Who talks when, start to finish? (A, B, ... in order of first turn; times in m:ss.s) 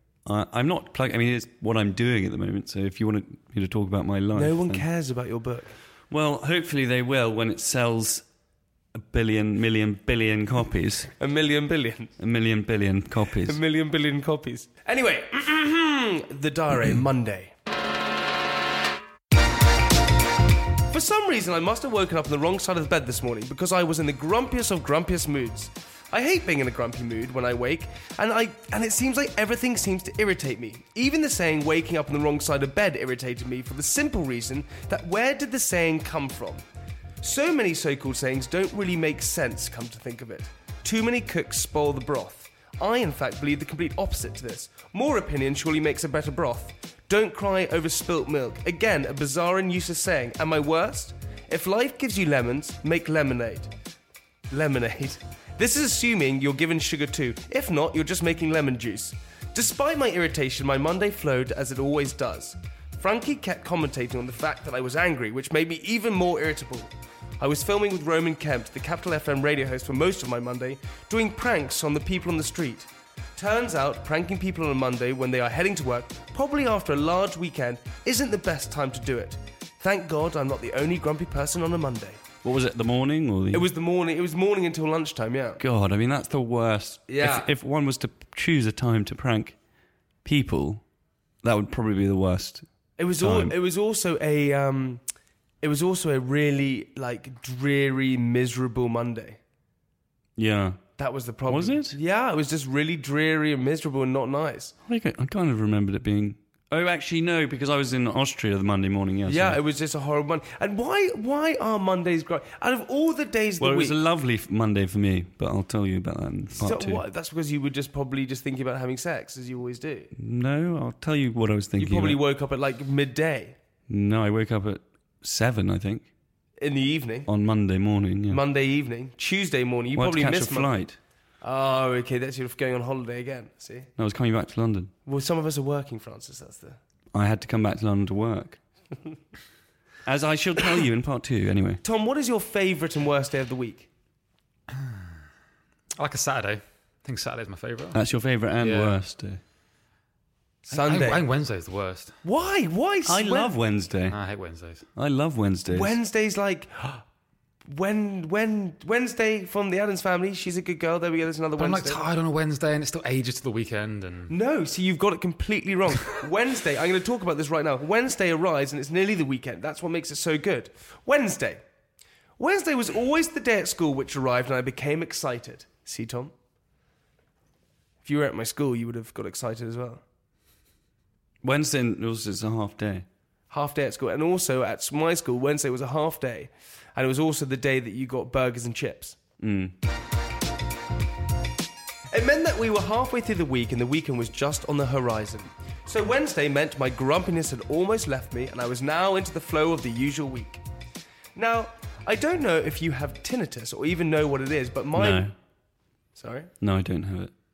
0:00.2-0:04.8 A
0:04.3-0:05.7 B
0:06.1-0:08.2 A
0:08.9-0:11.1 A
0:11.2-0:12.1 B
0:12.2-0:13.6 A
0:13.4-0:17.5 B
0:20.9-0:36.6 B
0:37.2-0:53.7 B
0:54.5-1:22.2 B
1:22.4-1:23.7 A
1:23.5-1:25.6 B
1:25.6-1:29.6 A
1:27.1-1:27.5 B
1:30.2-1:30.8 A
1:31.4-1:32.6 A
1:33.0-1:35.0 B
1:33.2-1:33.5 A
1:35.6-1:39.4 B
1:40.4-1:40.8 A
1:41.0-1:44.7 B
1:41.5-1:42.0 A
1:44.9-1:49.6 A
1:49.3-1:54.0 B
1:53.6-1:57.0 A
1:56.6-2:00.1 B
2:00.1-2:02.2 A
2:01.8-2:03.6 B
2:03.9-2:06.1 A
2:06.6-2:07.3 B
2:07.3-2:08.4 A
2:08.3-2:10.7 B
2:09.9-2:11.0 A
2:11.4-2:13.9 B
2:14.0-2:14.9 A
2:15.0-2:16.8 B
2:17.1-2:18.6 A
2:20.0-2:21.8 A
2:21.8-2:23.9 B
2:26.0-2:28.0 C
2:27.9-2:29.4 A
2:28.6-2:29.0 C
2:30.6-2:31.2 B
2:30.7-2:32.1 C
2:32.2-2:33.5 B
2:33.0-2:34.2 A
2:34.1-2:34.8 C
2:34.9-2:35.9 A
2:35.7-2:37.0 B
2:37.7-2:42.0 B
2:41.6-2:44.3 C
2:44.3-2:51.6 B
2:52.4-2:56.3 B
2:58.0-3:00.0 B
3:01.4-3:03.0 A
3:03.5-3:09.2 B
3:09.4-3:09.7 A
3:12.1-3:20.6 B
3:21.3-3:25.2 B
3:24.9-3:25.3 A
3:26.2-3:26.5 B
3:26.6-3:27.3 A